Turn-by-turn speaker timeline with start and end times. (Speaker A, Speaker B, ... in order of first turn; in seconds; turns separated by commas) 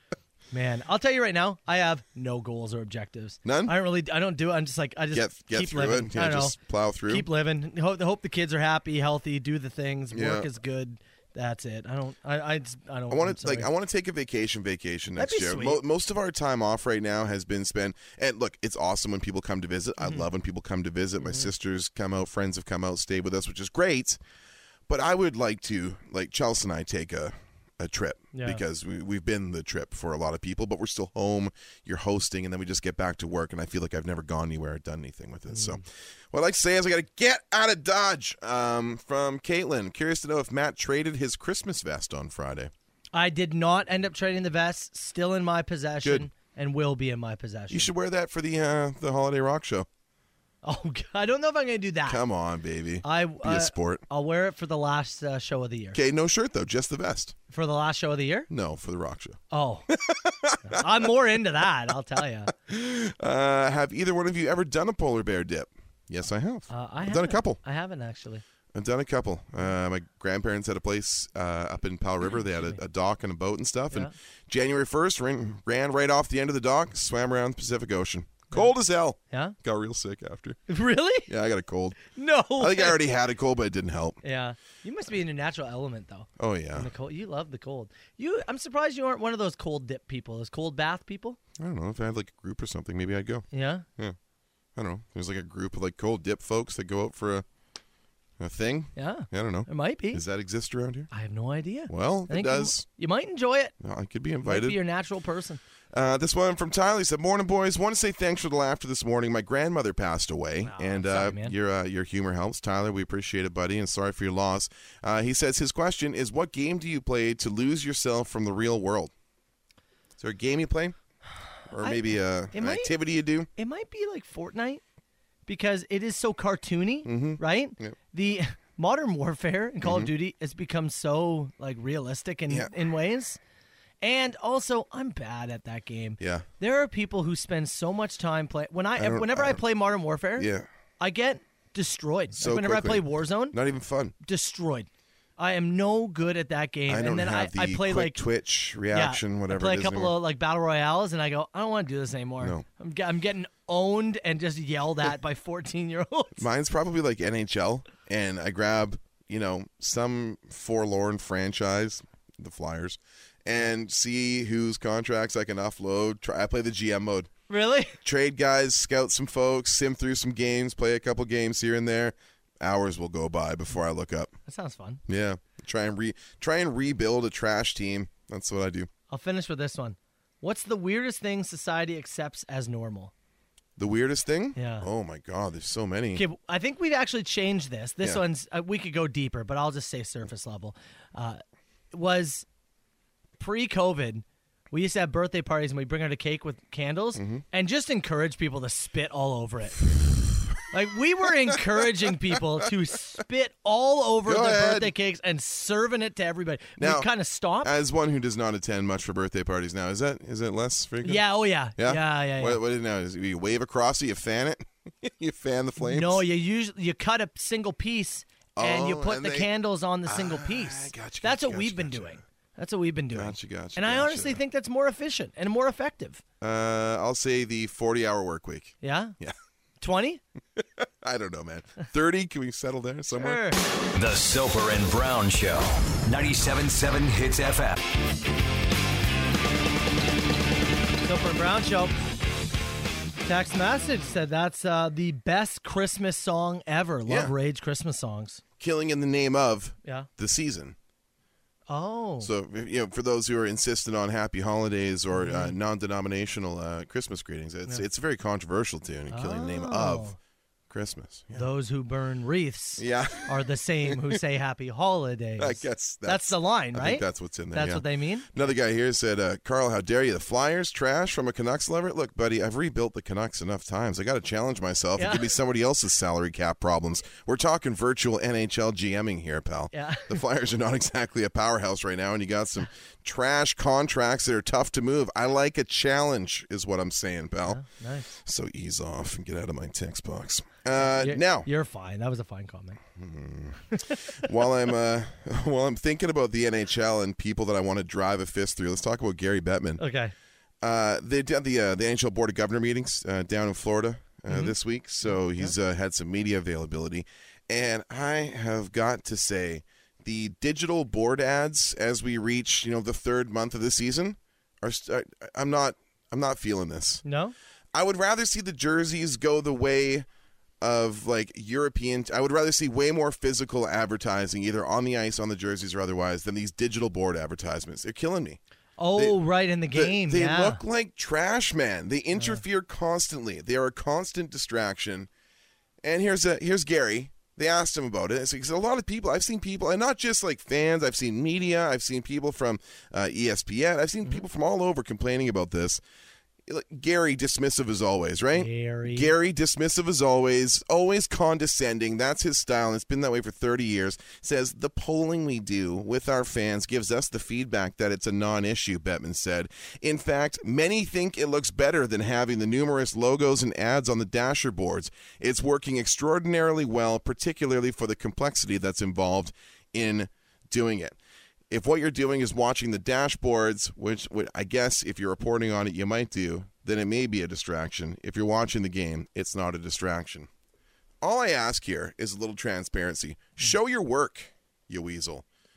Speaker A: 0.5-6.5, Speaker B: 3.4-3.7, Speaker B: 5.1-7.3, Speaker A: 7.1-13.7, Speaker B: 10.1-10.5, Speaker B: 13.1-24.2, Speaker A: 15.2-15.8, Speaker A: 21.2-21.5, Speaker B: 24.9-42.7, Speaker A: 28.3-28.6, Speaker A: 35.5-35.8, Speaker A: 43.1-47.9, Speaker B: 46.0-46.3, Speaker B: 47.7-49.9, Speaker A: 50.6-52.2, Speaker B: 52.1-54.0, Speaker A: 53.0-56.0, Speaker B: 55.9-57.4, Speaker A: 57.5-58.5, Speaker B: 58.5-61.0, Speaker A: 59.5-59.9, Speaker A: 60.6-62.5, Speaker B: 62.5-67.6, Speaker A: 66.7-68.4, Speaker B: 68.7-80.6, Speaker A: 72.3-72.8, Speaker A: 79.3-79.5, Speaker A: 80.7-81.3, Speaker B: 81.3-84.2, Speaker A: 82.1-83.0, Speaker A: 84.2-91.4, Speaker B: 86.4-86.9, Speaker B: 91.6-93.4, Speaker A: 93.5-93.8, Speaker B: 94.8-97.5, Speaker B: 98.4-101.1, Speaker A: 99.0-100.2, Speaker A: 101.1-103.7, Speaker B: 101.9-102.8, Speaker B: 103.8-104.8, Speaker A: 104.4-105.6, Speaker B: 105.9-119.1, Speaker A: 110.6-111.5, Speaker B: 120.2-121.0, Speaker B: 121.7-123.5, Speaker A: 121.8-122.9, Speaker A: 123.5-124.8, Speaker A: 125.5-133.4, Speaker B: 127.0-128.0, Speaker B: 129.8-130.1, Speaker A: 134.0-140.5, Speaker B: 136.2-136.5, Speaker B: 139.0-139.6, Speaker B: 140.4-140.7, Speaker A: 141.0-143.6, Speaker B: 142.3-144.1, Speaker A: 144.2-148.2, Speaker B: 146.9-150.2, Speaker A: 148.9-156.4, Speaker B: 156.3-167.3, Speaker A: 167.5-168.0, Speaker B: 168.0-174.3, Speaker A: 174.5-175.0, Speaker B: 175.1-178.9, Speaker A: 179.1-183.1, Speaker B: 183.8-186.2, Speaker A: 184.6-184.9, Speaker A: 186.1-192.4, Speaker A: 193.4-199.8, Speaker B: 197.2-197.4, Speaker A: 200.7-207.7, Speaker B: 204.2-204.9, Speaker B: 206.8-207.1, Speaker B: 207.6-216.2, Speaker A: 211.0-212.6, Speaker A: 215.8-226.2, Speaker B: 218.6-219.5, Speaker B: 220.1-222.2, Speaker B: 223.1-224.4, Speaker B: 226.4-229.3, Speaker A: 228.8-229.2, Speaker A: 229.8-230.2, Speaker B: 230.6-233.4, Speaker A: 233.1-233.6, Speaker C: 233.9-237.8, Speaker A: 241.0-241.9, Speaker A: 243.2-248.4, Speaker B: 247.1-247.3, Speaker B: 248.6-250.8, Speaker A: 249.8-250.1, Speaker A: 251.7-252.3, Speaker B: 252.2-260.1, Speaker A: 255.1-255.6, Speaker A: 259.1-260.2, Speaker B: 260.7-261.5, Speaker A: 261.3-268.3, Speaker B: 262.8-263.4, Speaker B: 263.9-264.1, Speaker B: 265.4-287.6, Speaker A: 275.0-275.3, Speaker A: 279.7-280.2, Speaker A: 287.4-288.1, Speaker B: 288.2-291.5, Speaker A: 290.8-292.8, Speaker B: 292.9-299.8, Speaker A: 293.7-294.1, Speaker A: 299.8-300.1, Speaker B: 300.6-317.0, Speaker A: 304.3-305.5, Speaker A: 317.0-317.3, Speaker B: 317.7-320.1, Speaker B: 320.6-328.4, Speaker A: 328.8-330.6, Speaker B: 329.7-335.1, Speaker A: 332.1-332.4, Speaker B: 335.8-345.8, Speaker B: 346.5-371.0, Speaker A: 348.3-349.1, Speaker B: 371.5-380.3, Speaker B: 381.0-385.2